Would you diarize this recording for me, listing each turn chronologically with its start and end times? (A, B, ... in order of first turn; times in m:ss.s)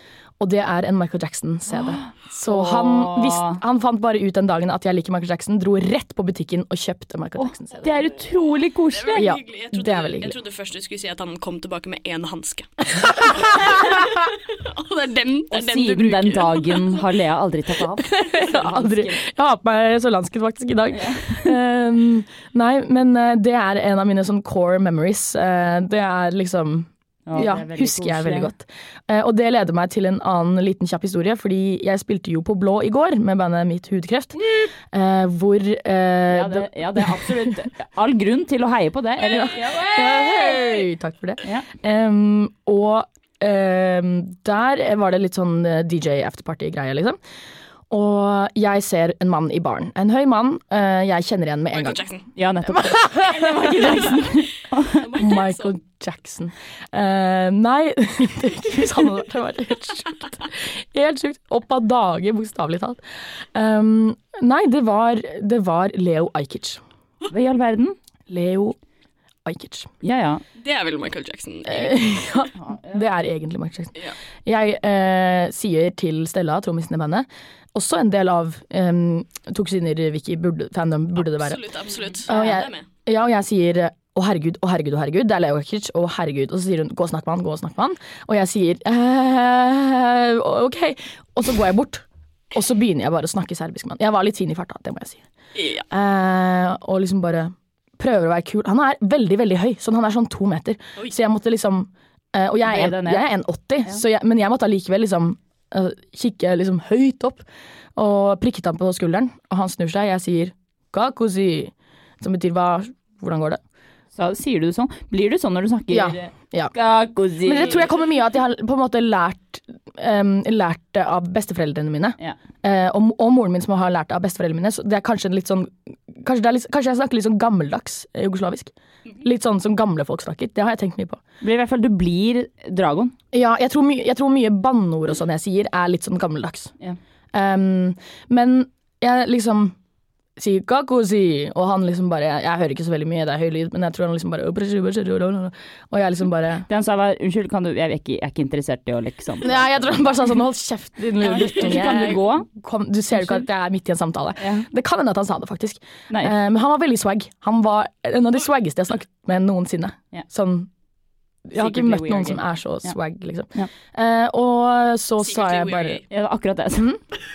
0:00.4-0:08.0 A
0:01.7-0:03.6 B
0:07.4-0:09.3 B
0:08.9-0:17.0 C
0:09.2-0:10.4 A
0:13.0-0:13.6 A
0:15.5-0:19.2 B
0:18.0-0:37.4 A
0:20.9-0:21.6 B
0:27.3-0:28.5 B
0:36.3-0:40.7 B
0:39.3-0:47.2 A
0:47.9-0:52.0 A
0:51.7-0:52.3 C
0:52.4-0:55.1 B
0:52.7-0:54.2 A
0:55.0-0:55.8 C
0:55.2-1:06.8 A
1:07.3-1:08.0 B
1:08.3-1:08.8 A
1:09.4-1:09.9 A
1:10.0-1:10.4 B
1:10.6-1:12.1 C
1:11.7-1:21.6 A
1:12.6-1:13.0 B
1:21.2-1:22.9 C
1:22.2-1:35.2 A
1:22.3-1:22.6 B
1:35.6-1:35.8 C
1:35.9-1:47.4 A
1:42.6-1:43.3 B
1:48.0-1:53.6 A
1:54.2-1:57.9 B
1:55.9-1:56.7 A
1:57.4-2:11.2 A
2:11.4-2:13.2 B
2:13.3-2:16.7 A
2:17.3-2:19.8 A
2:20.4-2:26.7 A
2:26.7-2:29.8 B
2:29.4-2:40.7 A
2:31.2-2:32.5 B
2:33.2-2:33.4 B
2:34.4-2:34.7 B
2:36.1-2:36.4 B
2:41.5-2:46.0 A
2:41.5-2:43.0 B
2:45.2-2:46.0 C
2:46.1-2:47.0 B